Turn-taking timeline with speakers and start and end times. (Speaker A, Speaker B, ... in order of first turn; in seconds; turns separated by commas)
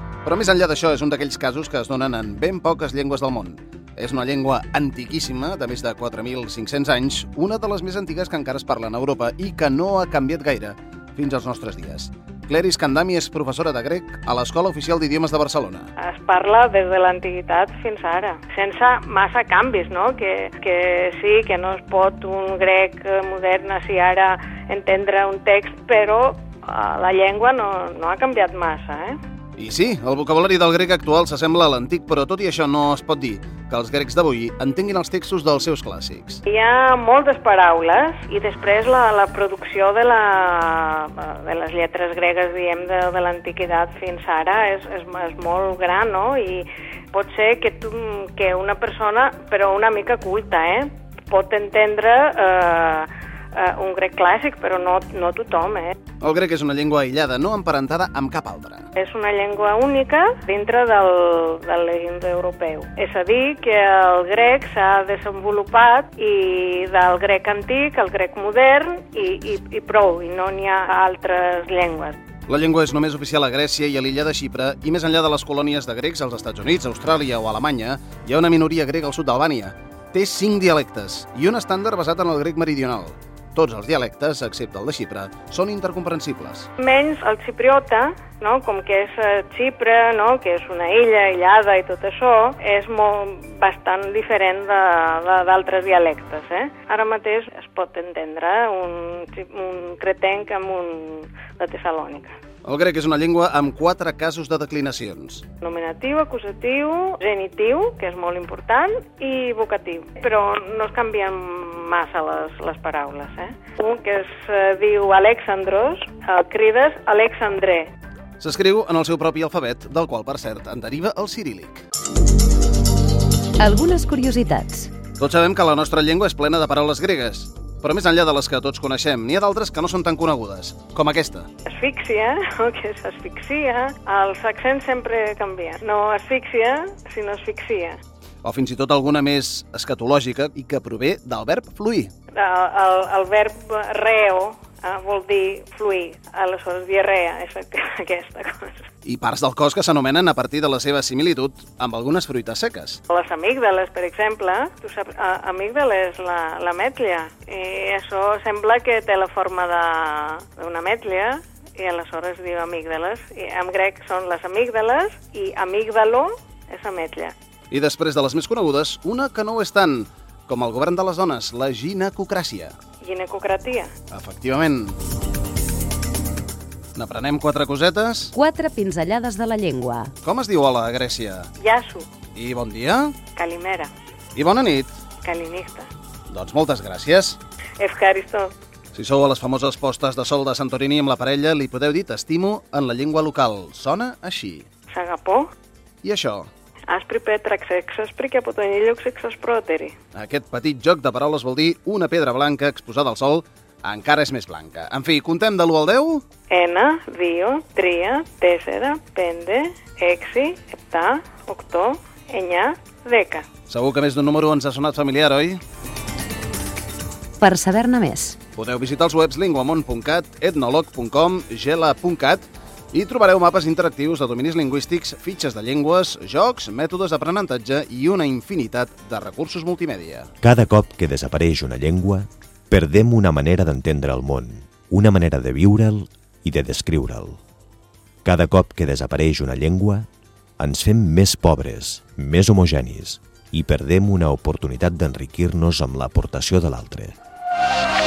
Speaker A: 0.2-15.9, Speaker B: 16.0-29.2, Speaker A: 29.6-36.4, Speaker B: 36.5-56.0, Speaker A: 56.2-58.9, Speaker B: 58.9-72.2, Speaker A: 72.5-86.7, Speaker B: 86.8-102.4, Speaker A: 102.6-105.4, Speaker B: 105.6-117.9, Speaker A: 118.4-121.8, Speaker C: 123.6-124.9, Speaker A: 125.2-131.5, Speaker B: 131.6-138.0, Speaker A: 138.4-142.1, Speaker B: 142.3-148.9, Speaker A: 149.0-153.0, Speaker B: 153.1-167.3, Speaker A: 167.7-172.7, Speaker B: 173.0-173.9, Speaker A: 174.1-175.0, Speaker A: 176.9-178.3, Speaker C: 178.3-180.1, Speaker A: 180.2-181.5, Speaker B: 181.6-182.1, Speaker A: 182.3-183.2, Speaker B: 183.3-183.9, Speaker A: 184.3-185.0, Speaker B: 185.2-185.9, Speaker A: 186.3-187.4, Speaker B: 187.8-188.5, Speaker A: 188.9-194.7, Speaker B: 194.9-195.5, Speaker A: 196.0-196.5, Speaker B: 196.9-199.9, Speaker A: 200.1-206.2, Speaker B: 206.5-213.4, Speaker A: 213.7-215.6, Speaker C: 217.4-218.4, Speaker A: 218.5-230.3, Speaker D: 230.4-237.4, Speaker D: 238.2-240.1, Speaker D: 240.6-247.2